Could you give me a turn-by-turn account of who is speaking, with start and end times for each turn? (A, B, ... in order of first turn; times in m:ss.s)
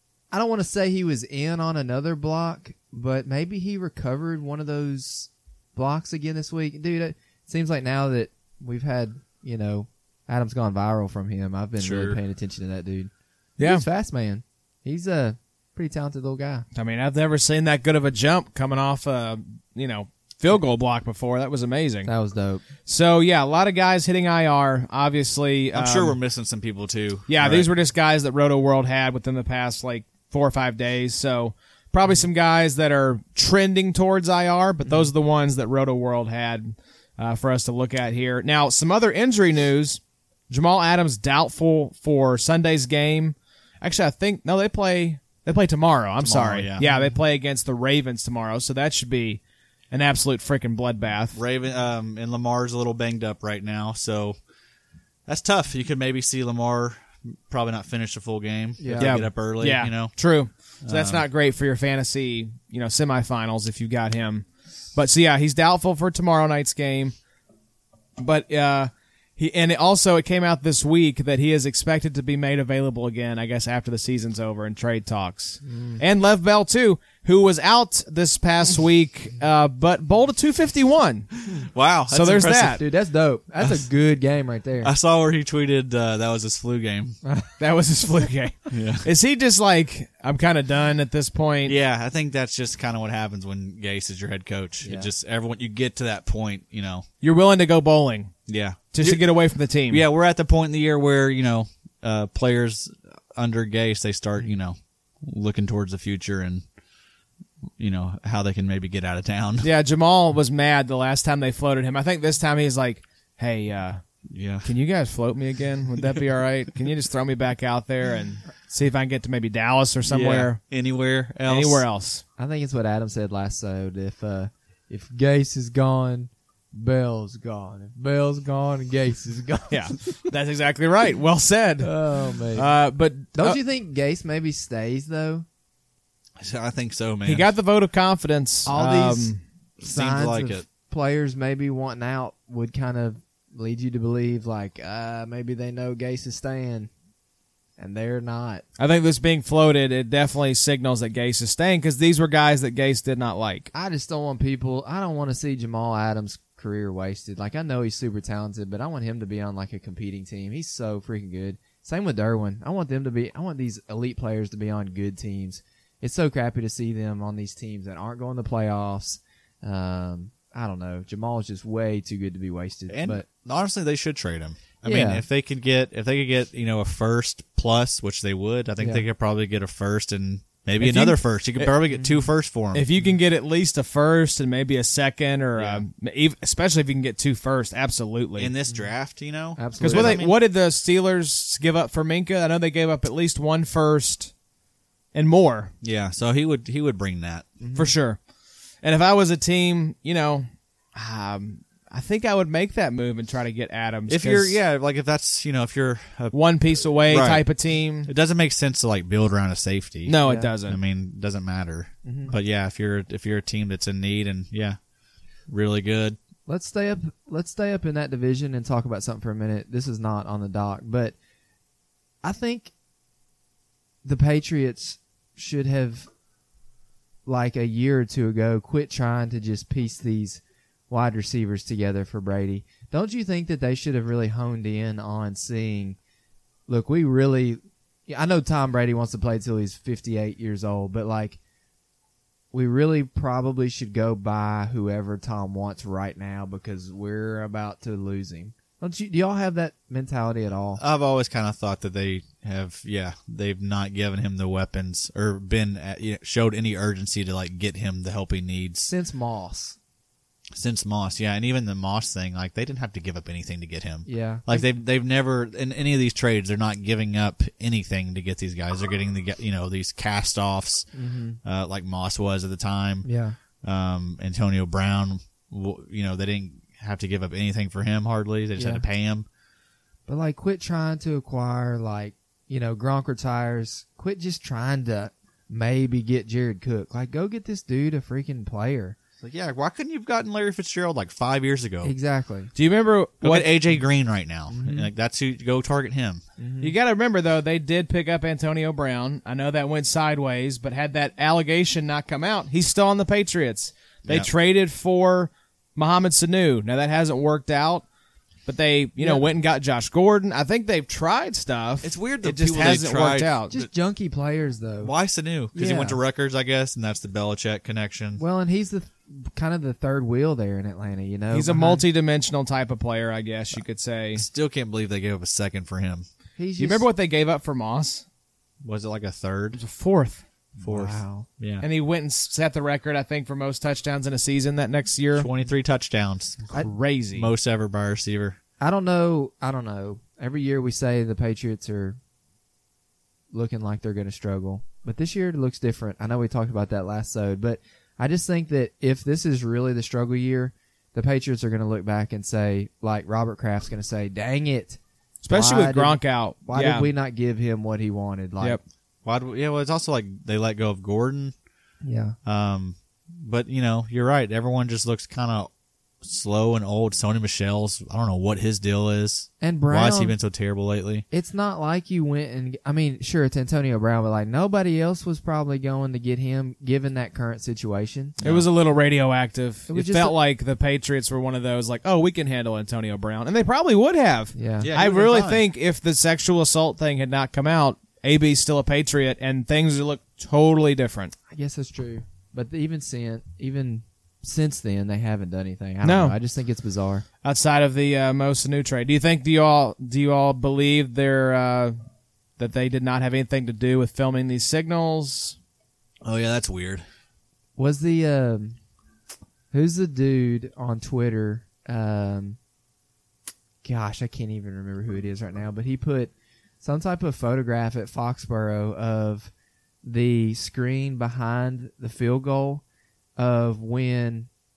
0:00.3-0:16.6 A
0:11.8-0:12.2 B
0:13.6-0:13.8 C
0:16.7-0:22.1 C
0:22.0-0:22.6 A
0:22.8-0:26.2 C
0:25.7-0:27.7 B
0:27.3-0:51.4 C
0:46.2-0:46.8 B
0:46.8-0:47.1 A
0:51.3-0:54.4 B
0:55.2-1:00.1 B
0:58.8-0:59.2 A
0:59.0-1:07.1 C
1:00.8-1:01.2 B
1:08.2-1:21.3 C
1:15.6-1:16.0 A
1:21.5-1:22.8 B
1:22.1-1:22.8 C
1:22.7-1:24.9 A
1:24.8-1:27.2 B
1:27.2-1:27.5 A
1:27.6-1:31.8 C
1:28.7-1:29.0 B
1:31.6-1:37.0 B
1:34.8-1:35.1 A
1:37.2-1:38.3 C
1:38.5-1:39.3 B
1:38.9-1:40.0 C
1:39.9-1:46.6 B
1:47.8-1:49.7 B
1:49.6-1:54.0 C
1:54.3-1:54.7 B
1:54.6-2:00.6 C
2:00.0-2:01.8 B
2:01.5-2:02.2 C
2:02.4-2:10.1 A
2:09.7-2:13.6 C
2:11.8-2:12.7 A
2:13.3-2:15.4 A
2:16.4-2:17.5 B
2:17.2-2:19.4 C
2:18.6-2:26.9 A
2:19.8-2:20.7 B
2:27.8-2:28.6 A
2:28.8-2:33.7 C
2:33.7-2:53.2 A
2:52.9-3:02.9 B
2:54.8-2:55.2 A
2:58.8-2:59.0 A
3:00.8-3:01.7 C
3:01.9-3:02.3 A
3:02.7-3:08.5 C
3:05.6-3:05.8 B
3:08.4-3:10.4 B
3:09.6-3:10.2 A
3:09.8-3:14.3 C
3:15.1-3:15.7 C
3:15.8-3:17.4 B
3:17.6-3:17.9 A
3:17.7-3:18.2 C
3:18.8-3:24.6 C
3:24.1-3:26.4 B
3:26.3-3:28.1 C
3:27.0-3:27.4 B
3:28.0-3:34.8 B
3:30.0-3:30.8 C
3:30.2-3:30.5 A
3:32.0-3:32.3 A
3:35.5-3:36.2 B
3:36.5-3:41.1 A
3:42.2-3:42.7 A
3:44.0-3:46.1 A
3:47.2-3:56.0 A
3:56.7-4:01.4 A
4:02.5-4:10.8 A
4:10.8-4:18.9 B
4:18.9-4:19.8 A
4:20.5-4:30.9 B
4:24.0-4:24.7 A
4:30.9-4:31.4 A
4:31.4-4:33.1 B
4:33.0-4:33.4 A
4:33.6-4:39.2 B
4:38.6-4:38.8 A
4:40.1-4:49.0 A
4:49.2-4:51.9 B
4:51.8-4:52.5 A
4:52.5-4:53.5 C
4:53.2-4:56.2 B
4:54.5-4:54.9 A
4:56.4-4:56.7 A
4:56.6-5:07.8 C
5:08.4-5:13.5 C
5:09.0-5:09.2 A
5:11.8-5:13.6 B
5:13.5-5:14.9 A
5:14.8-5:18.2 B
5:15.5-5:16.0 A
5:18.2-5:21.8 A
5:21.3-5:24.2 C
5:24.2-5:26.0 B
5:26.4-5:26.8 A
5:26.6-5:28.0 C
5:28.6-5:29.6 B
5:29.5-5:30.2 C
5:30.6-5:31.3 A
5:30.6-5:31.6 B
5:31.6-5:35.3 C
5:35.1-5:36.4 B
5:36.5-5:37.3 C
5:37.1-5:38.4 B
5:38.6-5:42.0 A
5:43.3-5:54.8 A
5:55.2-5:56.9 C
5:55.3-5:58.6 A
5:59.0-6:01.3 B
6:01.8-6:02.2 A
6:02.2-6:05.5 B
6:06.0-6:11.0 B
6:09.4-6:10.1 A
6:11.1-6:18.2 A
6:18.2-6:18.5 B
6:18.2-6:31.1 C
6:19.7-6:20.2 A
6:24.3-6:24.7 A
6:24.6-6:25.4 B
6:31.3-6:37.0 A
6:35.8-6:36.2 C
6:37.2-6:41.7 C
6:42.4-6:45.4 C
6:46.0-6:46.8 B
6:47.6-6:48.6 A
6:49.5-6:52.4 A
6:53.6-6:59.3 A
6:59.8-7:02.6 A
7:03.2-7:04.3 A